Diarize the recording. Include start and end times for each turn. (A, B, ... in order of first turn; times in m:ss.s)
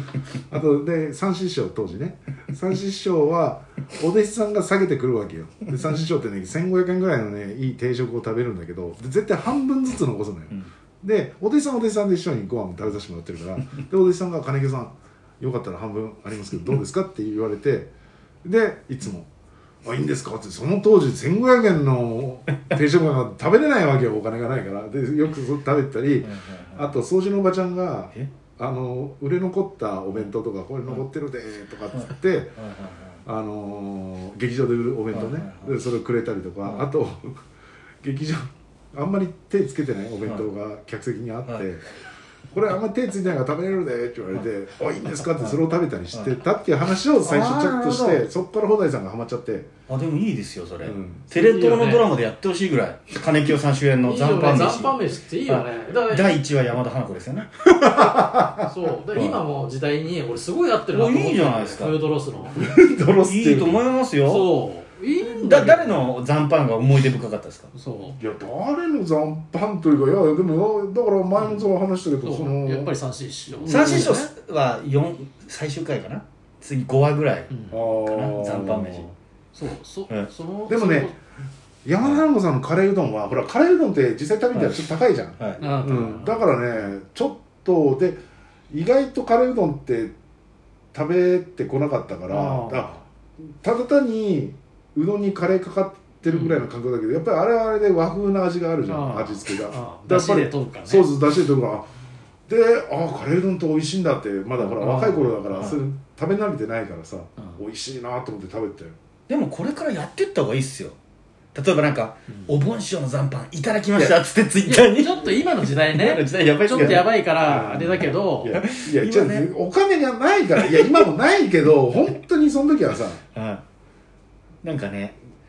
0:00.5-0:17.9 A
0:18.4-0:19.3 A
0:19.8-0:32.6 A
0:26.2-0:27.0 B
0:31.9-0:33.2 B
0:33.2-0:37.4 A
0:35.1-0:35.8 B
0:36.6-0:36.9 B
0:38.0-0:41.8 A
0:42.5-0:49.7 A
0:46.1-0:46.4 B
0:47.2-0:48.2 B
0:49.9-0:57.5 B
0:50.8-0:51.3 A
0:51.3-0:52.1 C
0:54.0-0:56.4 C
0:57.6-0:58.7 A
0:57.8-1:02.8 C
0:59.1-0:59.4 B
1:00.9-1:02.0 B
1:02.5-1:03.8 A
1:03.2-1:04.5 B
1:04.2-1:06.1 C
1:05.2-1:07.7 B
1:07.7-1:08.2 C
1:08.1-1:12.9 A
1:11.4-1:11.6 C
1:12.2-1:14.3 C
1:13.5-1:14.1 A
1:13.6-1:19.1 B
1:17.5-1:17.8 C
1:17.7-1:19.1 A
1:19.5-1:21.2 C
1:20.7-1:21.2 A
1:21.8-1:30.1 A
1:22.0-1:22.2 B
1:24.5-1:25.6 B
1:25.6-1:26.5 C
1:30.9-1:33.0 A
1:32.3-1:33.0 C
1:33.6-1:41.9 A
1:36.3-1:36.7 C
1:38.8-1:41.1 C
1:42.5-1:49.0 A
1:44.6-1:45.8 C
1:49.3-1:51.0 B
1:51.5-1:57.2 B
1:53.9-1:54.2 A
1:54.6-1:58.6 C
1:56.8-2:03.2 A
1:58.5-1:59.5 B
2:00.6-2:01.1 B
2:03.3-2:03.6 B
2:04.6-2:05.2 B